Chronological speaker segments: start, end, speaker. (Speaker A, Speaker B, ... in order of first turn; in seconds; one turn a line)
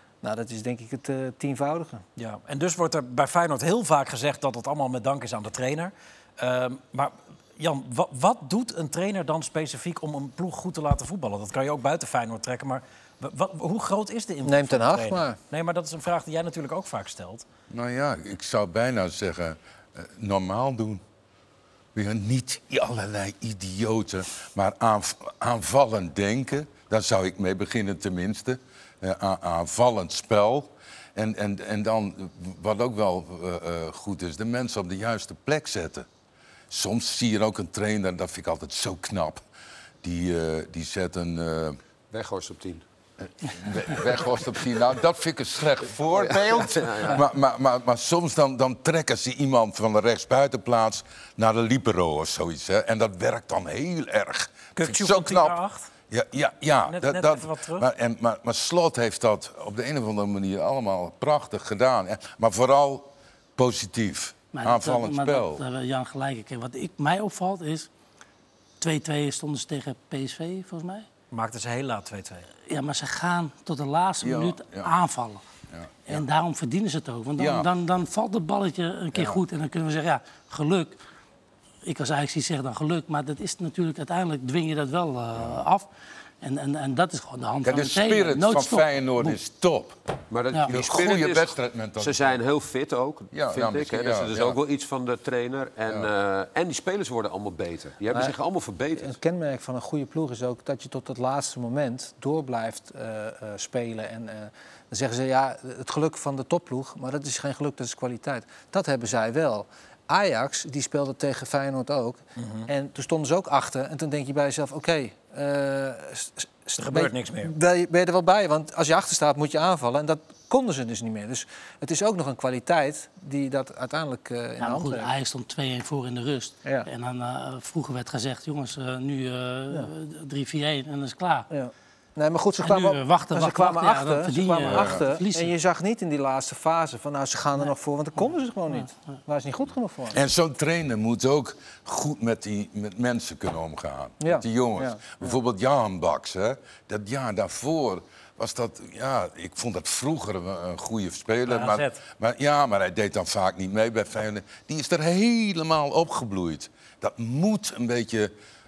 Speaker A: 0.2-2.0
Speaker B: 2.2-17.4
Speaker A: 14.4-15.4
Speaker C: 17.7-21.0
Speaker C: 21.9-36.1
Speaker C: 36.7-39.4
Speaker C: 40.0-41.8
Speaker D: 42.1-42.8
Speaker C: 43.2-55.6
Speaker D: 46.1-47.2
Speaker B: 54.7-55.9
Speaker C: 56.1-65.6
Speaker B: 56.9-57.9
Speaker E: 64.5-67.9
Speaker E: 68.8-71.1
Speaker B: 71.3-72.5
Speaker E: 72.7-75.4
Speaker C: 74.2-74.9
Speaker C: 75.7-76.2
Speaker E: 76.1-81.0
Speaker C: 77.4-77.7
Speaker C: 79.1-79.4
Speaker E: 81.8-85.9
Speaker E: 86.4-89.4
Speaker C: 87.6-90.0
Speaker D: 90.3-99.2
Speaker C: 90.7-92.2
Speaker C: 93.3-94.6
Speaker A: 99.0-125.1
Speaker B: 112.4-112.7
Speaker B: 116.8-117.5
Speaker E: 124.6-131.5
Speaker A: 131.5-140.2
Speaker E: 132.6-135.5
Speaker C: 134.6-135.0
Speaker C: 140.1-158.3
Speaker A: 144.2-145.3
Speaker B: 151.4-152.0